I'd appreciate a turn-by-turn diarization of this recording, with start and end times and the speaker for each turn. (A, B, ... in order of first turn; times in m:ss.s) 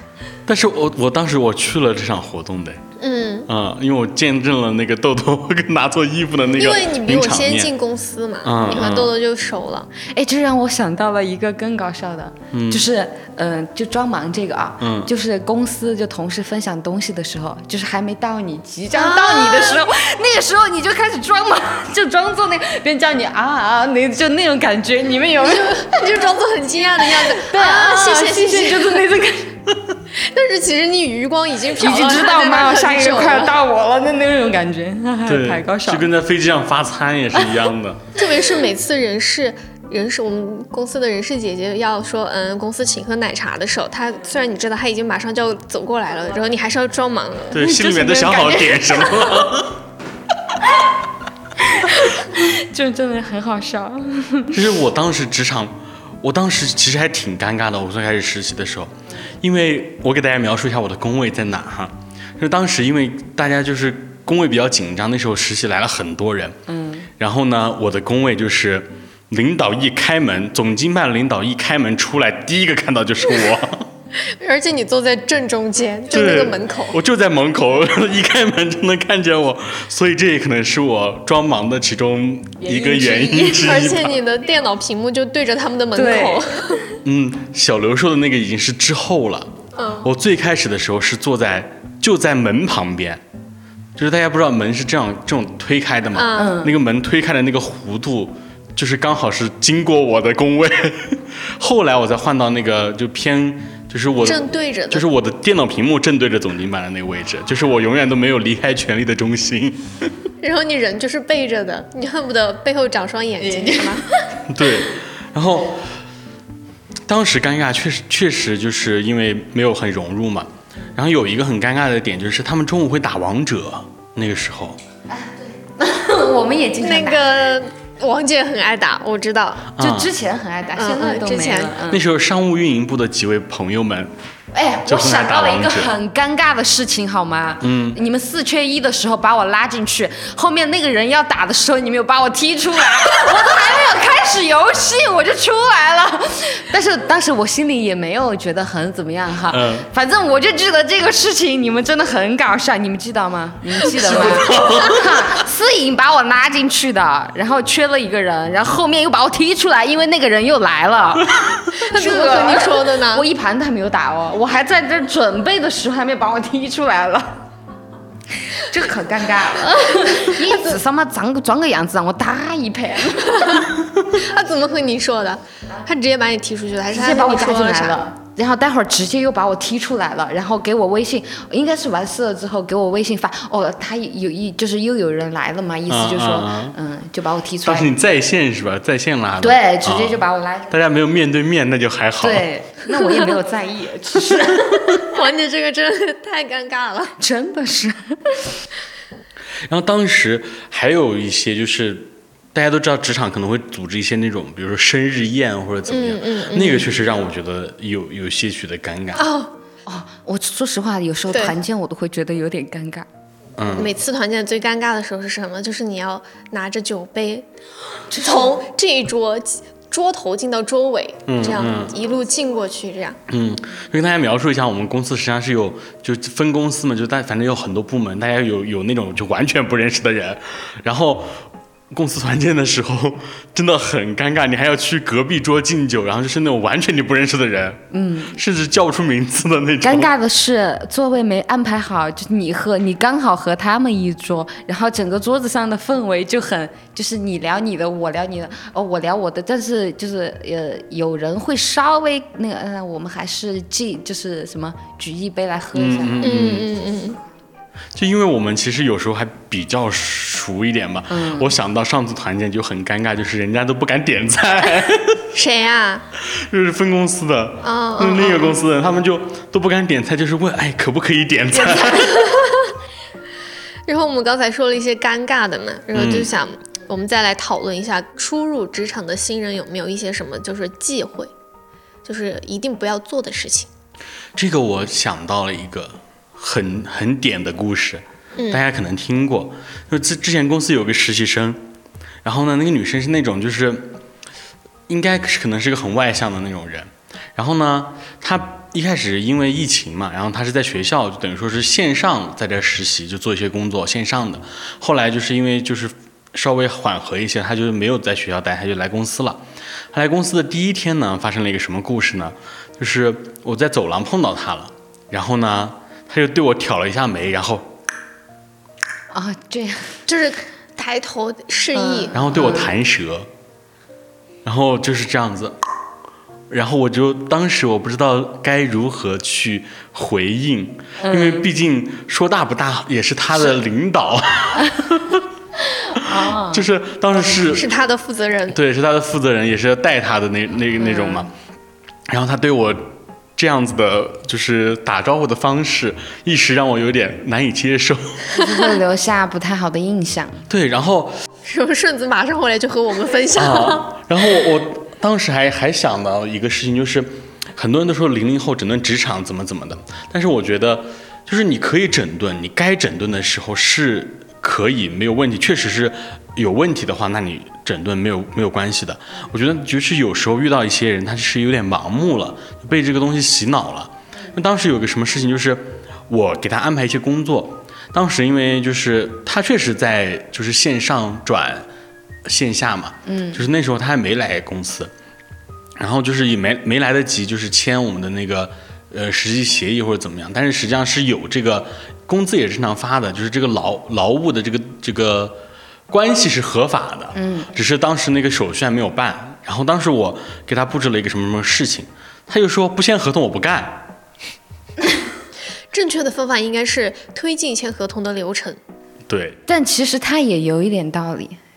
0:00.4-0:02.8 A
0:03.0-0:03.5 B
0:03.5-0:07.7 A
0:06.6-0:09.9 B
0:08.4-0:09.1 A
0:10.0-0:26.1 C
0:12.5-0:12.9 A
0:14.8-0:15.1 A
0:18.9-0:19.8 B
0:25.4-0:29.0 B
0:27.1-0:29.6 C
0:30.1-0:33.5 B
0:31.8-0:36.1 C
0:35.2-0:38.1 A
0:38.2-0:47.6 B
0:47.5-0:49.8 A
0:47.6-0:49.5 C
0:51.6-0:54.6 C
0:54.5-1:06.6 A
1:06.7-1:07.1 C
1:07.2-1:13.9 A
1:14.2-1:17.0 B
1:16.1-1:24.1 A
1:22.6-1:24.0 C
1:23.6-1:26.8 B
1:25.9-1:26.4 C
1:27.0-1:29.5 A
1:29.8-1:30.1 B
1:30.0-1:33.2 A
1:34.0-1:50.1 A
1:36.1-1:36.6 B
1:36.4-1:36.8 C
1:44.2-1:45.0 B
1:50.4-1:54.1 B
1:53.7-1:54.0 C
1:54.5-1:55.9 A
1:57.1-2:04.8 A
2:05.1-2:07.3 C
2:06.8-2:09.7 B
2:09.8-2:10.1 A
2:09.8-2:12.0 C
2:10.8-2:11.7 B
2:11.9-2:14.1 A
2:14.5-2:47.4 C
2:14.9-2:15.9 A
2:17.6-2:18.0 A
2:29.5-2:29.8 A
2:33.9-2:35.2 A
2:41.7-2:43.2 B
2:48.5-2:53.7 C
2:53.4-2:58.1 B
2:56.9-3:07.9 C
3:05.9-3:06.8 A
3:07.6-3:12.5 A
3:09.4-3:10.7 C
3:12.2-3:15.1 C
3:14.3-3:15.0 A
3:15.1-3:17.1 B
3:17.2-3:18.5 C
3:19.7-3:29.3 A
3:25.9-3:26.9 B
3:29.2-3:29.5 B
3:29.8-3:33.1 C
3:31.3-3:31.6 B
3:33.6-3:33.9 A
3:33.8-3:37.5 B
3:38.1-3:38.6 C
3:38.2-3:43.2 B
3:41.3-3:41.9 A
3:43.3-4:00.1 A
3:57.9-3:58.4 C
3:59.8-4:16.4 C
4:15.7-4:16.7 A
4:16.2-4:17.2 B
4:17.9-4:25.3 A
4:21.1-4:21.5 C
4:25.3-4:26.0 B
4:26.3-4:32.2 A
4:27.6-4:28.6 B
4:31.6-4:32.7 B
4:33.9-4:41.3 B
4:35.9-4:36.3 A
4:42.0-4:43.7 B
4:44.4-4:51.6 A
4:52.2-4:53.9 A
4:54.9-5:09.4 A
5:09.9-5:17.7 A
5:19.1-5:20.0 C
5:20.0-5:22.1 B
5:21.7-5:22.7 C
5:22.1-5:23.3 A
5:24.4-5:25.6 A
5:26.5-5:35.2 A
5:31.0-5:31.5 C
5:35.6-5:36.7 C
5:36.0-5:37.7 A
5:37.4-5:38.6 B
5:38.5-5:41.3 A
5:40.8-5:41.3 C
5:42.1-5:48.4 A
5:48.3-5:50.4 C
5:50.5-5:51.1 A
5:51.4-5:53.8 B
5:53.3-6:21.6 A
6:22.2-6:24.9 A
6:23.1-6:23.4 C
6:25.8-6:35.4 A
6:35.9-6:43.9 A
6:37.1-6:37.5 C
6:45.7-6:48.6 B
6:49.1-6:49.4 A
6:49.4-6:51.4 C